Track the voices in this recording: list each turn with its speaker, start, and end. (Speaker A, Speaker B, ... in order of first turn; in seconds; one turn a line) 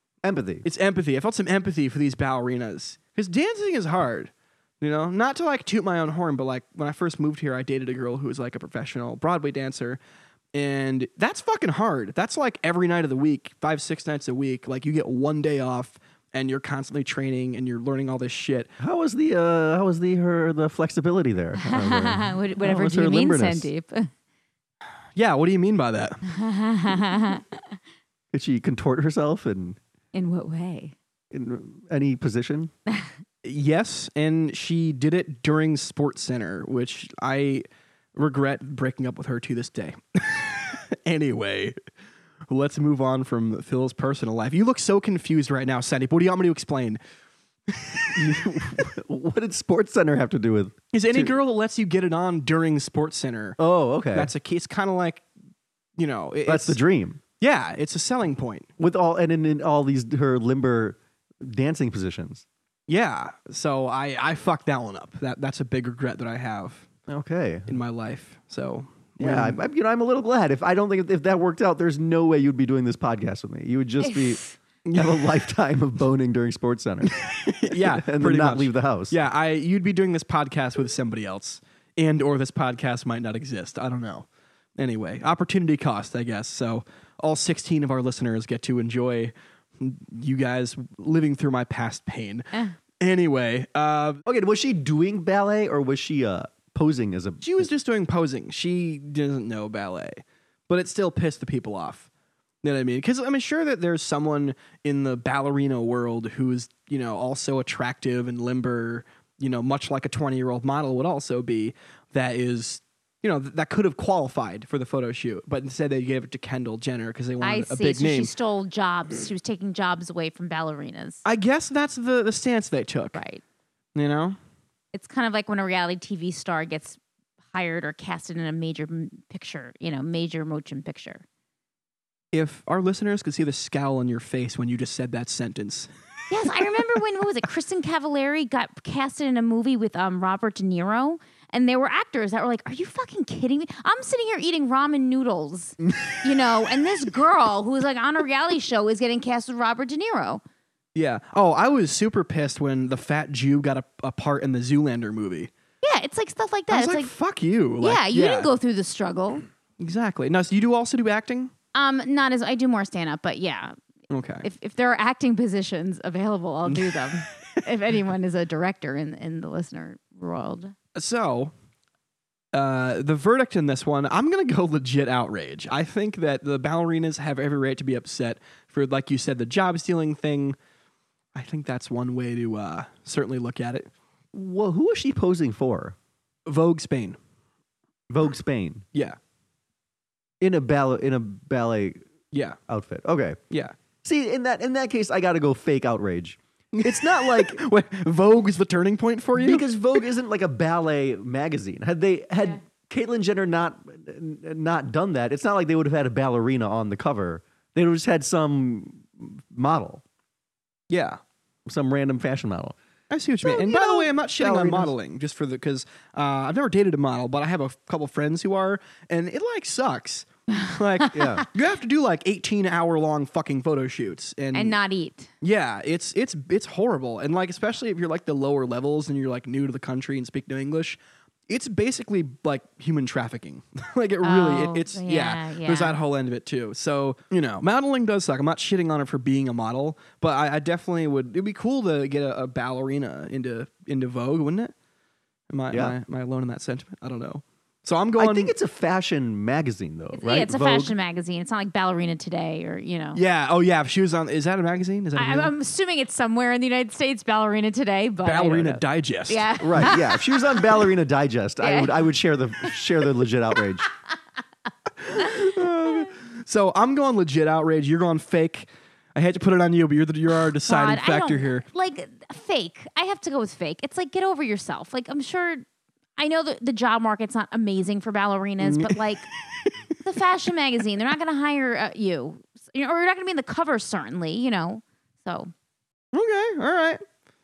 Speaker A: 0.2-0.7
Speaker B: 0.7-10.0
Speaker B: 10.5-18.7
Speaker A: 18.8-23.7
Speaker C: 21.6-24.1
Speaker B: 25.1-26.2
Speaker C: 26.3-27.8
Speaker A: 28.3-29.8
Speaker C: 30.1-30.9
Speaker A: 31.3-32.7
Speaker B: 33.4-41.8
Speaker B: 42.5-47.0
Speaker B: 47.7-48.6
Speaker A: 48.1-51.3
Speaker B: 50.9-53.6
Speaker A: 53.6-54.3
Speaker B: 54.1-55.2
Speaker B: 56.0-56.8
Speaker A: 56.5-57.2
Speaker B: 57.4-58.7
Speaker A: 58.8-62.5
Speaker B: 62.9-66.9
Speaker A: 67.1-67.7
Speaker B: 67.7-69.6
Speaker A: 69.2-79.2
Speaker B: 74.8-75.2
Speaker B: 77.1-94.2
Speaker A: 94.2-97.7
Speaker B: 97.4-102.1
Speaker B: 102.6-118.3
Speaker C: 117.4-121.2
Speaker B: 121.2-123.2
Speaker C: 123.2-123.4
Speaker B: 124.0-124.4
Speaker C: 124.9-127.0
Speaker C: 127.5-131.2
Speaker B: 132.3-135.9
Speaker C: 136.3-150.4
Speaker B: 150.9-155.5
Speaker C: 155.8-157.1
Speaker B: 156.7-158.5
Speaker C: 157.8-159.5
Speaker B: 159.8-161.5
Speaker C: 161.8-163.8
Speaker B: 164.1-164.5
Speaker C: 164.4-170.8
Speaker B: 166.7-167.6
Speaker B: 170.9-171.5
Speaker B: 172.5-180.6
Speaker B: 181.3-183.9
Speaker A: 184.3-185.9
Speaker B: 186.5-187.2
Speaker A: 188.1-188.8
Speaker A: 190.4-192.1
Speaker B: 192.3-192.6
Speaker A: 192.7-193.4
Speaker B: 193.5-193.8
Speaker A: 194.0-197.6
Speaker B: 196.7-199.7
Speaker A: 199.4-210.0
Speaker B: 210.9-211.2
Speaker A: 211.7-212.8
Speaker B: 213.1-224.8
Speaker A: 213.4-214.9
Speaker C: 220.6-221.4
Speaker A: 221.1-221.5
Speaker C: 224.5-225.3
Speaker B: 225.4-244.7
Speaker C: 234.2-236.0
Speaker B: 245.5-248.5
Speaker A: 248.2-250.9
Speaker C: 250.2-253.2
Speaker B: 253.2-255.5
Speaker C: 255.2-260.9
Speaker B: 258.2-259.9
Speaker A: 259.6-263.9
Speaker C: 261.6-262.1
Speaker B: 265.0-271.6
Speaker C: 265.2-266.1
Speaker C: 270.7-275.6
Speaker C: 276.2-279.3
Speaker B: 278.6-279.9
Speaker C: 280.0-285.5
Speaker B: 286.1-287.0